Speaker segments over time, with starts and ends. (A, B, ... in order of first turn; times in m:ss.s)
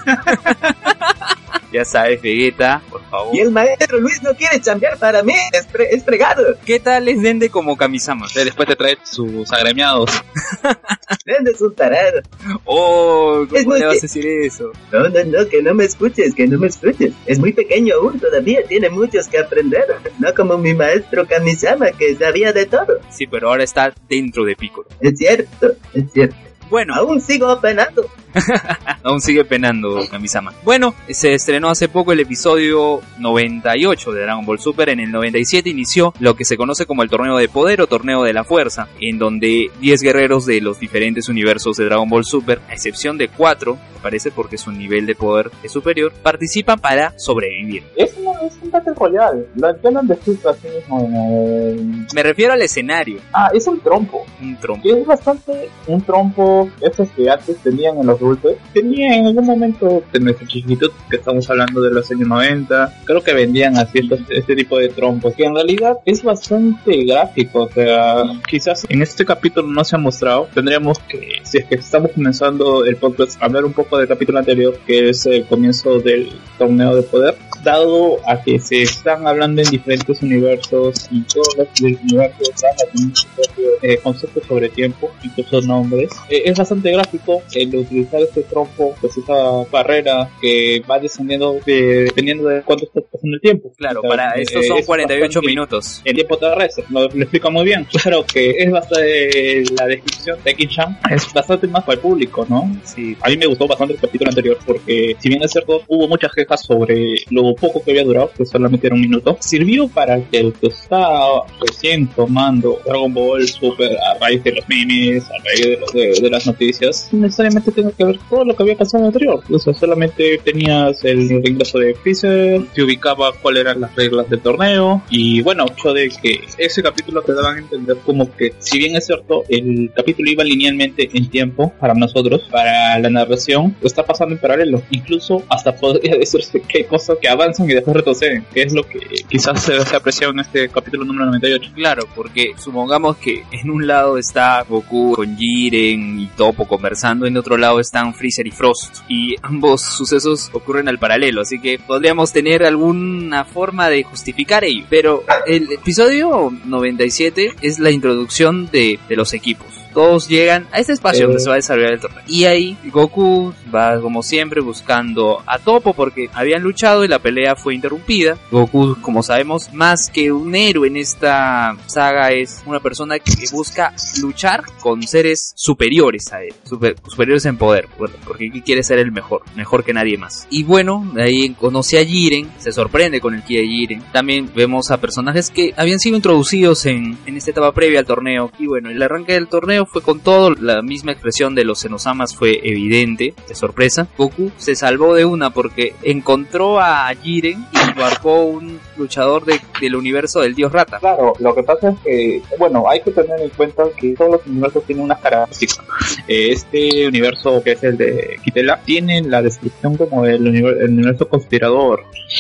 0:00.2-0:01.1 A
0:01.7-0:03.4 A
0:03.3-0:06.6 B
0:06.6-0:08.4 A
0:08.3-0:10.2 C
0:10.5-0:11.1 A
0:11.2-0:12.2 B
0:12.6-0:14.7 A
0:13.5-0:14.0 B
0:14.9-0:23.0 B
0:23.1-0:24.9 A
0:25.0-0:28.1 B
0:26.6-0:27.0 A
0:28.4-0:47.9 A
0:47.9-0:52.0 C
0:52.1-0:53.2 A
0:53.3-0:54.3 C
0:54.4-0:54.9 A
0:54.8-2:21.7 C
1:33.8-1:36.0 A
1:42.8-1:43.2 A
2:21.7-3:21.0 A
2:41.1-2:41.5 C
3:21.0-3:32.0 C